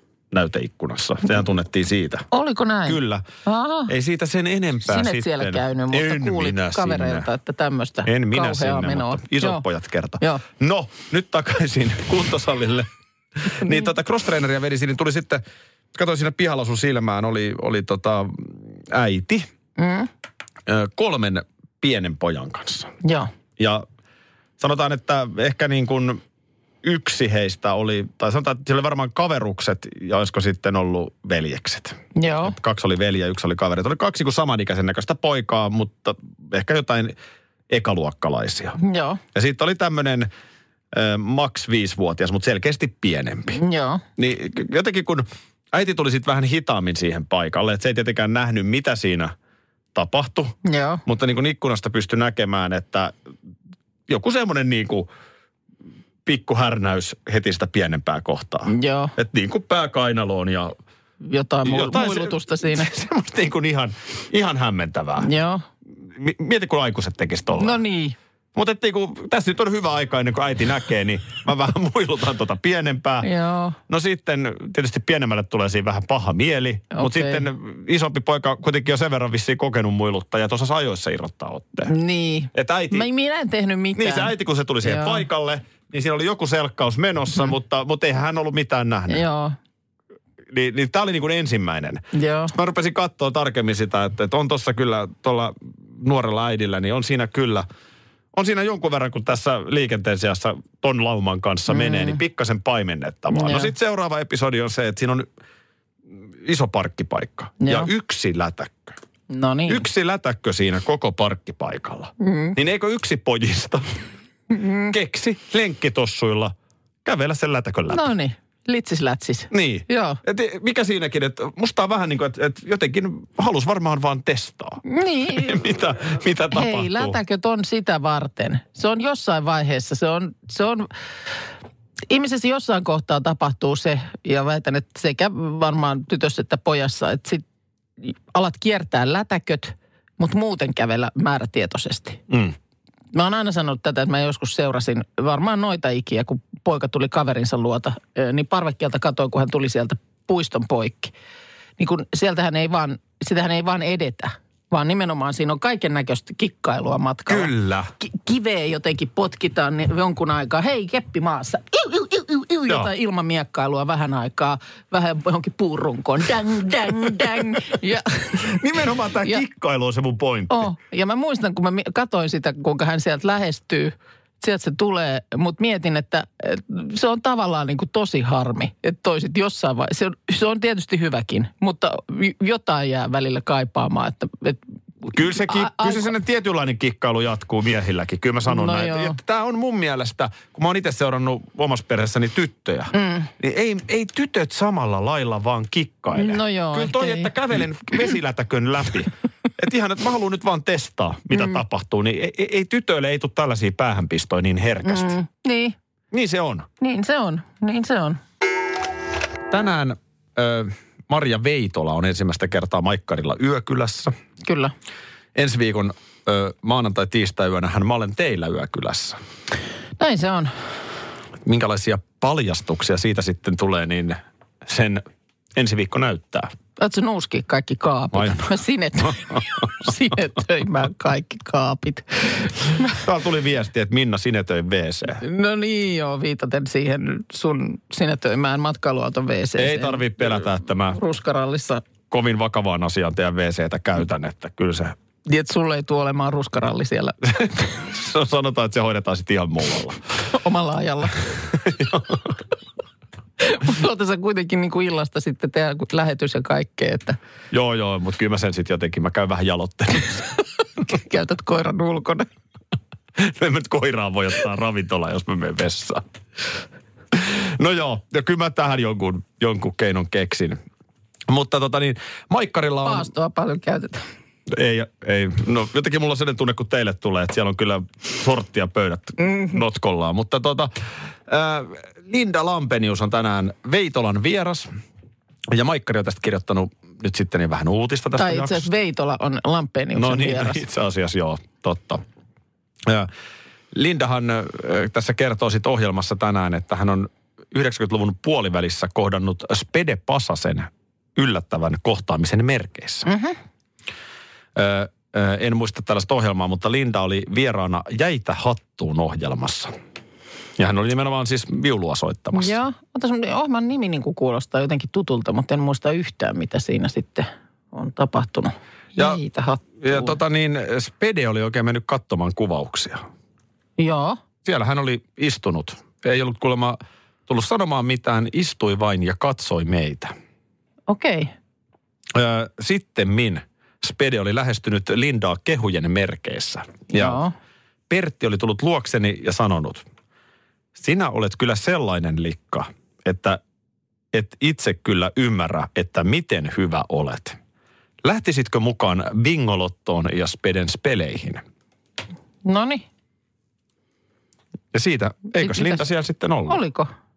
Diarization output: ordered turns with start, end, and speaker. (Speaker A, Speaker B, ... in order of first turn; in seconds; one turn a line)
Speaker A: 0.3-2.3
Speaker B: 2.3-3.9
Speaker A: 2.9-3.2
Speaker A: 3.9-7.3
Speaker B: 4.8-9.6
Speaker A: 8.1-19.5
Speaker B: 19.8-20.1
Speaker A: 20.7-22.9
Speaker B: 23.0-23.3
Speaker A: 23.6-23.9
Speaker A: 24.6-26.2
Speaker A: 26.8-37.2
Speaker B: 32.2-32.6
Speaker A: 37.7-38.8
Speaker B: 38.8-39.2
Speaker A: 39.3-40.3
Speaker A: 40.9-43.6
Speaker B: 43.5-44.0
Speaker A: 44.2-49.4
Speaker A: 50.0-53.2
Speaker B: 50.6-51.0
Speaker A: 54.1-55.1
Speaker A: 56.3-60.8
Speaker B: 58.7-59.1
Speaker B: 61.2-62.9
Speaker A: 61.6-65.3
Speaker B: 65.2-65.7
Speaker A: 66.1-67.8
Speaker B: 67.6-68.2
Speaker A: 68.5-73.3
Speaker B: 73.2-73.8
Speaker A: 73.9-81.9
Speaker B: 76.9-77.5
Speaker B: 81.9-85.2
Speaker A: 82.5-83.1
Speaker A: 84.0-89.2
Speaker B: 89.1-89.6
Speaker A: 90.5-97.7
Speaker B: 92.1-92.5
Speaker A: 98.3-105.3
Speaker B: 101.7-102.2
Speaker B: 103.3-103.7
Speaker A: 106.4-109.0
Speaker B: 107.6-107.9
Speaker B: 109.3-109.8
Speaker A: 109.7-113.9
Speaker B: 112.2-112.6
Speaker B: 114.5-114.9
Speaker A: 114.9-116.5
Speaker A: 117.0-118.1
Speaker B: 117.9-120.2
Speaker A: 119.5-127.2
Speaker B: 124.8-125.7
Speaker B: 126.5-130.9
Speaker B: 132.1-137.4
Speaker B: 138.0-142.2
Speaker A: 142.3-142.6
Speaker B: 143.1-151.1
Speaker B: 151.8-168.6
Speaker A: 157.3-157.9
Speaker A: 168.4-170.7
Speaker B: 170.5-186.1
Speaker A: 185.1-205.2
Speaker B: 188.5-189.2
Speaker B: 192.9-193.3
Speaker B: 196.2-197.3
Speaker B: 204.8-205.8
Speaker A: 206.1-206.7
Speaker B: 206.8-208.2
Speaker A: 209.5-214.1
Speaker B: 214.4-214.7
Speaker A: 215.3-219.2
Speaker B: 220.0-220.5
Speaker A: 221.4-225.0
Speaker A: 225.6-226.5
Speaker B: 226.8-233.0
Speaker A: 228.1-228.5
Speaker A: 229.1-229.4
Speaker A: 233.0-235.2
Speaker B: 235.2-240.2
Speaker A: 239.6-241.0
Speaker B: 240.9-241.8
Speaker A: 242.1-245.0
Speaker B: 245.3-247.2
Speaker A: 247.4-250.0
Speaker B: 250.3-251.2
Speaker A: 251.5-252.3
Speaker B: 253.4-257.2
Speaker A: 257.5-260.3
Speaker B: 260.8-262.3
Speaker A: 263.2-266.0
Speaker A: 267.1-270.6
Speaker A: 271.3-273.1
Speaker B: 272.8-274.0
Speaker A: 274.5-280.7
Speaker B: 279.2-279.5
Speaker A: 281.3-284.7
Speaker A: 285.5-288.7
Speaker B: 288.2-290.6
Speaker A: 289.9-292.0
Speaker A: 292.9-293.1
Speaker A: 293.7-303.1
Speaker B: 303.1-303.4
Speaker A: 304.6-309.7
Speaker A: 310.6-312.6
Speaker B: 312.3-320.2
Speaker A: 319.8-323.0
Speaker B: 323.8-324.2
Speaker A: 324.4-330.1
Speaker B: 330.9-331.3
Speaker A: 332.1-337.2
Speaker B: 336.9-337.3
Speaker A: 337.9-339.8
Speaker A: 340.8-343.4
Speaker A: 344.1-347.4
Speaker A: 348.0-351.4
Speaker B: 352.4-352.8
Speaker A: 354.7-356.6
Speaker B: 355.4-355.8
Speaker B: 356.5-356.9